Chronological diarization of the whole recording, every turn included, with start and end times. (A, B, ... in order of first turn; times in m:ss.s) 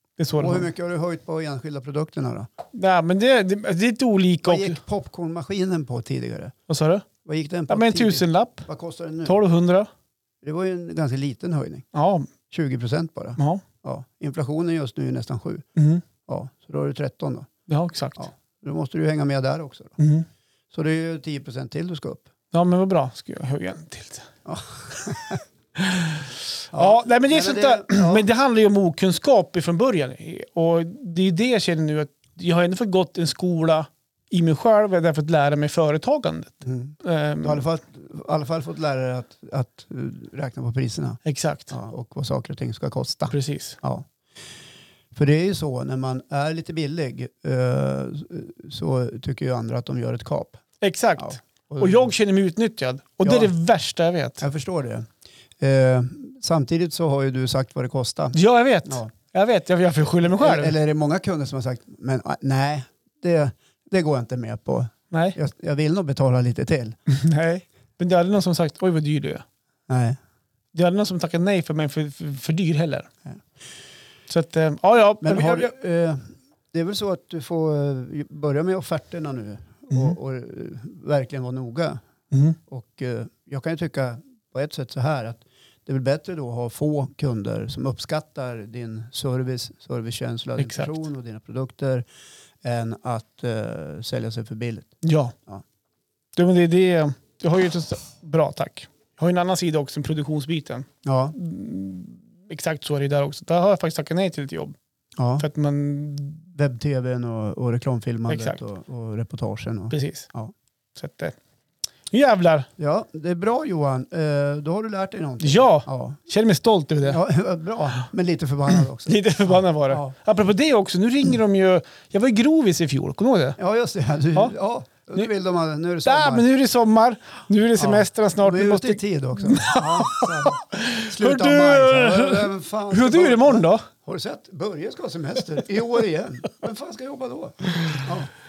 0:00.2-0:00.7 A
0:00.4-0:02.5 B
0:02.7-0:04.8 A
0:04.4-0:06.5 B
0:06.7-0:07.1 A
0:07.2-0:09.4 B
0:07.7-0:08.7 A
0:09.2-0:09.9 A
0:10.4-0:11.9 B
0:11.9-0:12.3 A
0:12.5-0:15.6 B
0:13.4-0:13.6 A
0:15.8-0:16.0 A
0:16.3-0:17.5 B
0:17.7-0:18.3 A
0:18.2-0:20.0 B
0:20.0-0:20.3 A
0:20.7-0:22.3 B
0:22.5-0:24.3 A
0:24.4-0:25.4 B
0:25.8-0:37.6 A
0:26.7-0:28.3 B
0:36.6-0:44.1 B
0:41.2-0:41.7 A
0:43.3-0:43.8 A
0:45.1-0:50.6 B
0:50.8-0:54.4 A
0:51.2-0:52.1 B
0:53.2-0:53.5 B
0:54.4-0:55.1 B
0:55.6-0:59.1 B
0:58.3-1:00.7 A
1:00.3-1:07.0 B
1:05.1-1:05.4 A
1:07.1-1:09.4 A
1:09.9-1:10.2 B
1:10.7-1:13.1 A
1:14.3-1:15.7 A
1:15.2-1:22.0 B
1:19.9-1:20.2 A
1:22.3-1:22.6 A
1:22.7-1:32.1 B
1:30.6-1:30.9 A
1:32.6-1:34.9 B
1:35.0-1:35.4 A
1:36.4-1:44.8 A
1:41.0-1:41.4 B
1:45.2-1:45.5 B
1:45.4-1:46.5 A
1:46.5-1:50.5 B
1:48.3-1:48.6 A
1:49.9-1:50.3 A
1:51.0-1:51.4 A
1:52.1-1:52.7 A
1:52.8-1:56.2 B
1:55.4-1:57.2 A
1:57.0-2:00.2 B
1:59.1-2:03.6 A
2:03.6-2:06.4 B
2:06.0-2:13.9 A
2:07.8-2:18.3 B